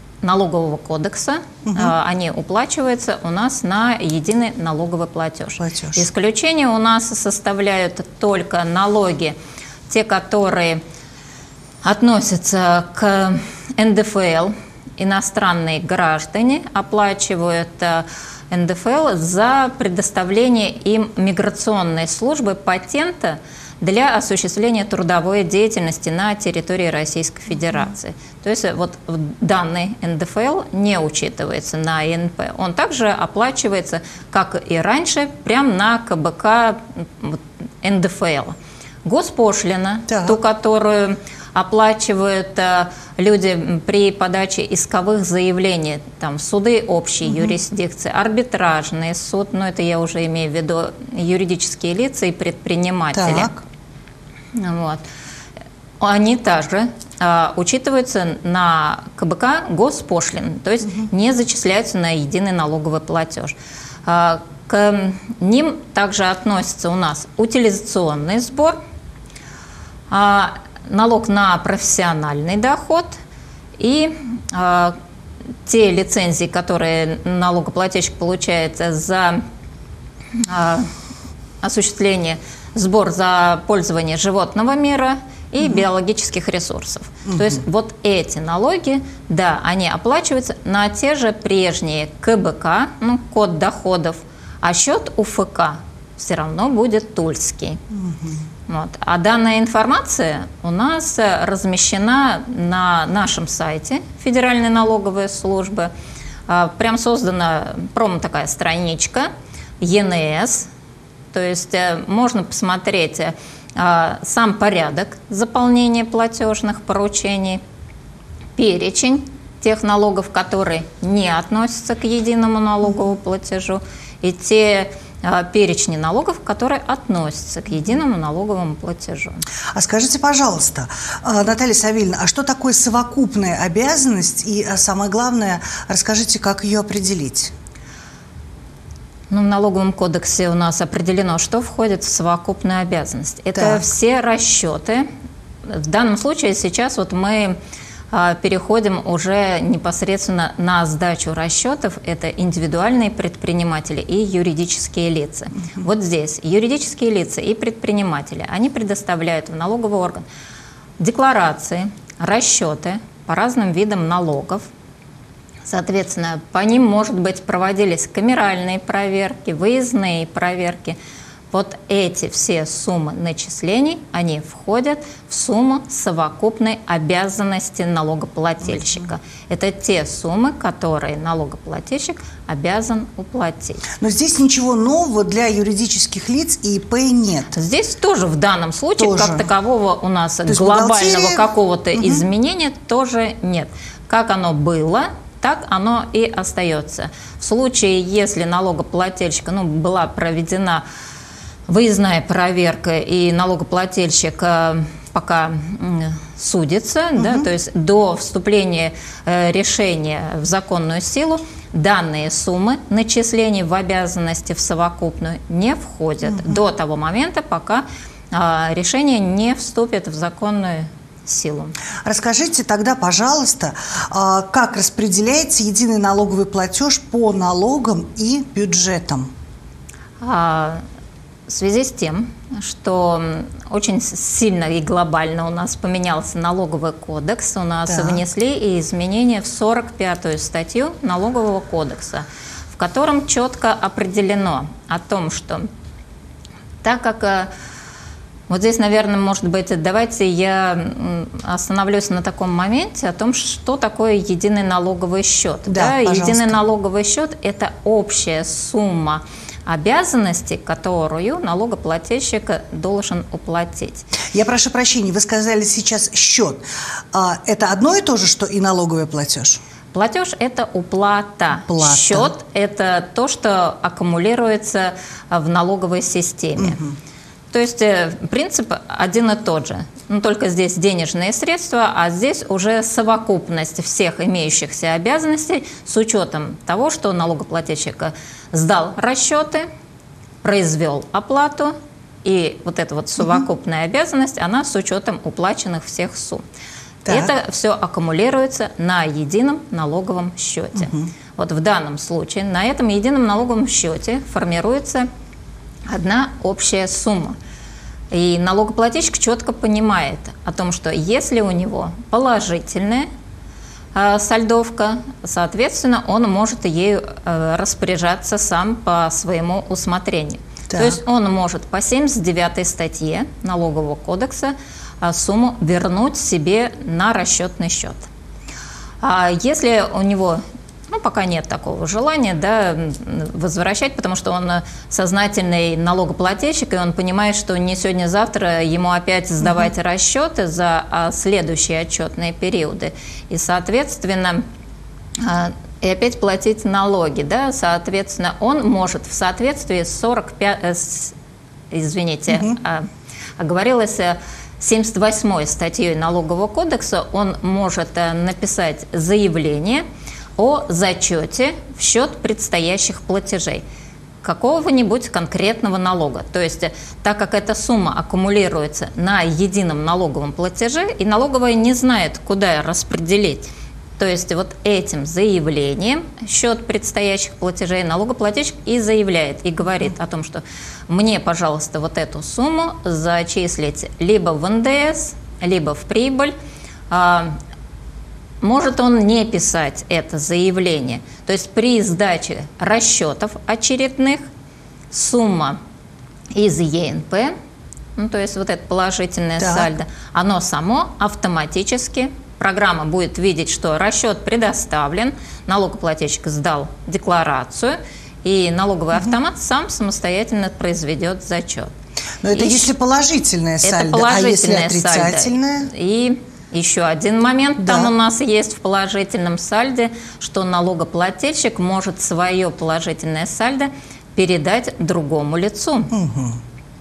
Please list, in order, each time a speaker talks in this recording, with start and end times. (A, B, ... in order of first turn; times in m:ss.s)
0:00.2-0:09.4 A
0:01.6-0:01.9 B
0:05.6-0:06.0 B
0:09.9-0:10.8 A
0:11.8-0:53.5 A
0:40.1-0:40.4 B
0:47.3-0:47.5 B
0:53.1-0:53.6 B
0:54.5-0:55.0 A
0:56.0-1:08.8 A
1:10.1-1:13.2 A
1:13.8-1:15.0 A
1:15.6-1:19.4 A
1:20.4-1:20.9 A
1:21.6-1:37.8 A
1:27.2-1:27.6 B
1:37.9-1:38.4 B
1:38.7-1:45.9 A
1:46.5-1:49.3 A
1:49.8-1:50.7 A
1:51.3-1:57.6 A
1:58.6-2:09.4 A
2:09.7-2:17.5 B
2:19.3-2:25.1 A
2:23.5-2:23.8 B
2:25.6-2:27.6 A
2:28.1-2:40.2 A
2:41.0-2:44.6 A
2:45.6-2:51.0 A
2:51.5-3:03.8 A
3:04.0-3:07.5 B
3:07.5-3:20.8 A
3:09.0-3:09.5 B
3:10.4-3:12.2 B
3:21.7-3:41.7 A
3:27.2-3:27.5 B
3:36.3-3:36.6 B
3:42.0-3:49.3 B
3:50.2-3:50.8 A
3:51.5-4:05.7 A
3:57.9-3:58.2 B
4:06.8-4:07.5 A
4:08.5-4:24.1 A
4:15.7-4:16.6 B
4:24.3-4:29.6 B
4:29.9-4:36.8 A
4:31.6-4:32.3 B
4:36.6-4:37.0 B
4:37.5-4:49.7 A
4:50.4-4:56.4 A
4:57.0-4:57.3 B
4:57.1-5:05.1 A
5:00.8-5:01.1 B
5:05.9-5:07.4 A
5:08.1-5:13.1 A
5:13.9-5:28.1 A
5:20.7-5:21.0 B
5:29.0-5:44.4 A
5:45.2-5:51.1 A
5:51.7-5:52.9 A
5:52.3-5:52.6 B
5:53.4-5:59.8 A
6:00.4-6:03.6 A
6:04.2-6:26.3 A
6:26.9-6:27.4 A
6:28.4-6:34.2 A
6:34.9-6:35.6 A
6:36.3-6:37.3 A
6:38.0-6:51.7 A
6:39.4-6:39.7 B
6:52.2-6:55.7 B
6:52.3-6:52.7 A
6:53.6-7:05.9 A
6:57.6-6:57.9 B
7:05.9-7:06.4 B